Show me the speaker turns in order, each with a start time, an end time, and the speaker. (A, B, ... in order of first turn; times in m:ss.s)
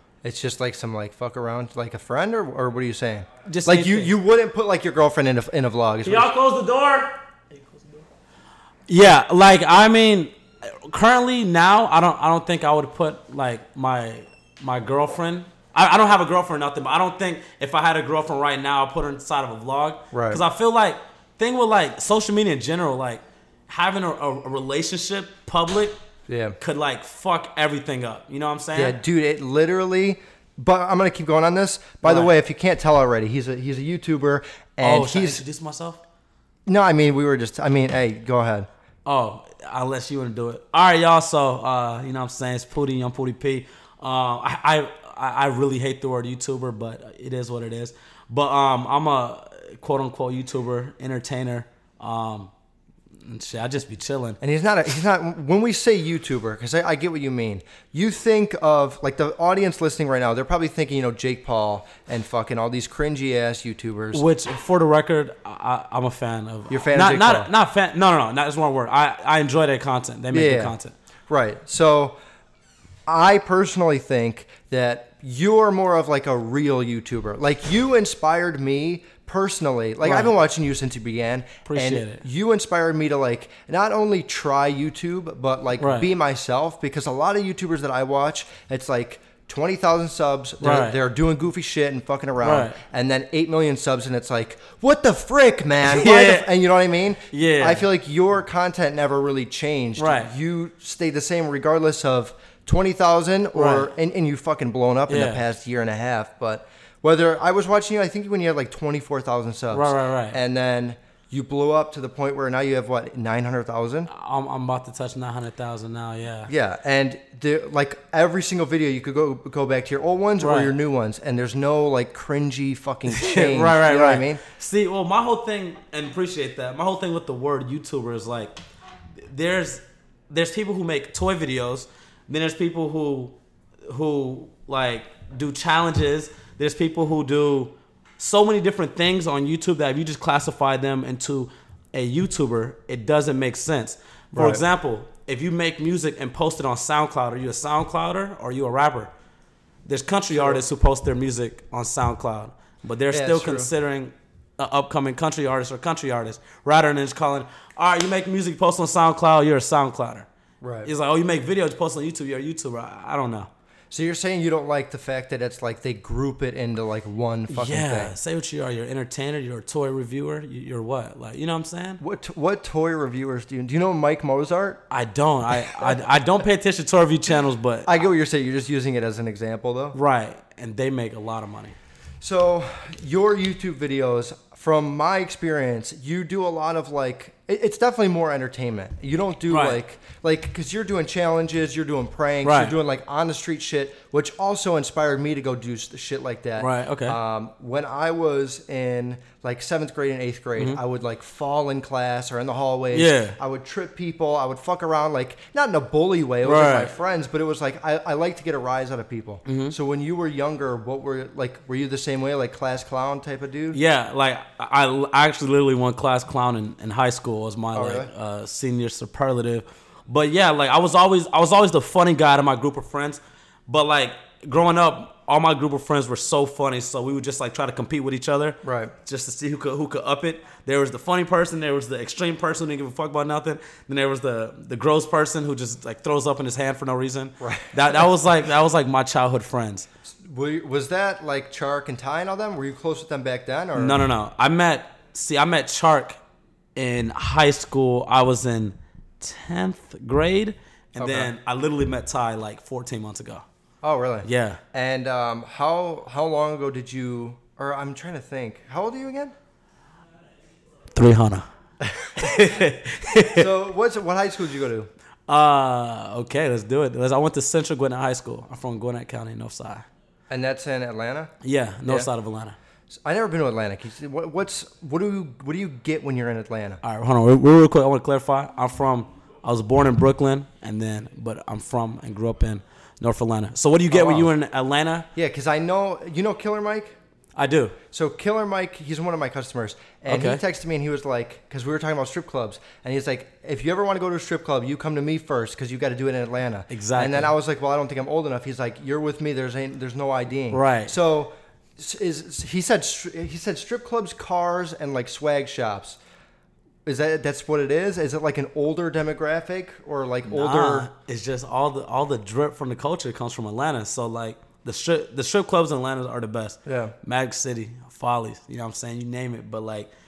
0:00.2-0:06.3 A
0:03.5-0:04.1 B
0:06.0-0:08.1 B
0:08.9-0:26.0 B
0:20.1-0:20.4 A
0:26.3-0:26.6 A
0:26.6-0:29.0 B
0:28.8-0:35.4 A
0:32.0-0:32.3 B
0:34.8-0:36.0 B
0:36.7-0:38.7 A
0:39.0-0:52.5 B
0:53.2-0:54.4 B
0:54.4-1:04.2 A
1:04.1-1:10.9 B
1:06.7-1:07.5 A
1:10.3-1:10.7 A
1:11.3-1:12.2 A
1:13.1-1:54.1 A
1:20.0-1:20.3 B
1:21.7-1:22.2 B
1:25.8-1:26.1 B
1:30.6-1:31.0 B
1:32.4-1:32.8 B
1:35.8-1:36.5 B
1:37.3-1:37.9 B
1:40.0-1:40.3 B
1:43.5-1:43.9 B
1:45.1-1:45.4 B
1:49.7-1:50.4 B
1:54.1-1:56.5 B
1:56.5-2:04.4 A
2:00.4-2:00.8 B
2:03.1-2:08.5 B
2:09.2-2:13.4 B
2:13.9-2:29.1 B
2:24.3-2:24.6 A
2:29.8-2:40.3 B
2:30.3-2:30.6 A
2:33.1-2:33.7 A
2:40.6-2:40.9 A
2:40.8-2:43.5 B
2:43.9-2:48.1 A
2:47.5-2:52.0 B
2:52.0-2:54.8 A
2:54.9-2:57.9 B
2:55.5-2:56.0 A
2:57.8-3:00.0 A
2:59.9-3:01.8 B
3:02.2-3:33.8 A
3:09.5-3:09.8 B
3:12.4-3:12.8 B
3:16.6-3:17.2 B
3:22.9-3:23.4 B
3:26.4-3:26.9 B
3:29.5-3:29.8 B
3:33.7-3:59.9 B
3:37.7-3:38.1 A
3:48.6-3:48.9 A
3:57.4-3:58.1 A
4:00.2-4:04.1 A
4:03.8-4:06.2 B
4:06.8-4:13.4 B
4:11.0-4:11.3 A
4:13.8-4:19.3 A
4:14.2-4:14.6 B
4:20.9-4:21.5 B
4:21.8-4:22.2 A
4:22.2-4:23.5 B
4:23.3-4:24.9 A
4:25.3-4:29.9 B
4:30.3-4:31.3 A
4:31.4-4:32.6 B
4:33.0-4:36.8 A
4:36.8-4:45.1 B
4:43.9-4:44.3 A
4:45.2-4:47.0 A
4:47.4-4:47.8 B
4:47.9-5:06.0 A
4:50.1-4:50.4 B
4:56.7-4:57.3 B
5:00.5-5:00.9 B
5:06.9-5:10.9 A
5:10.3-5:19.9 B
5:16.7-5:16.9 A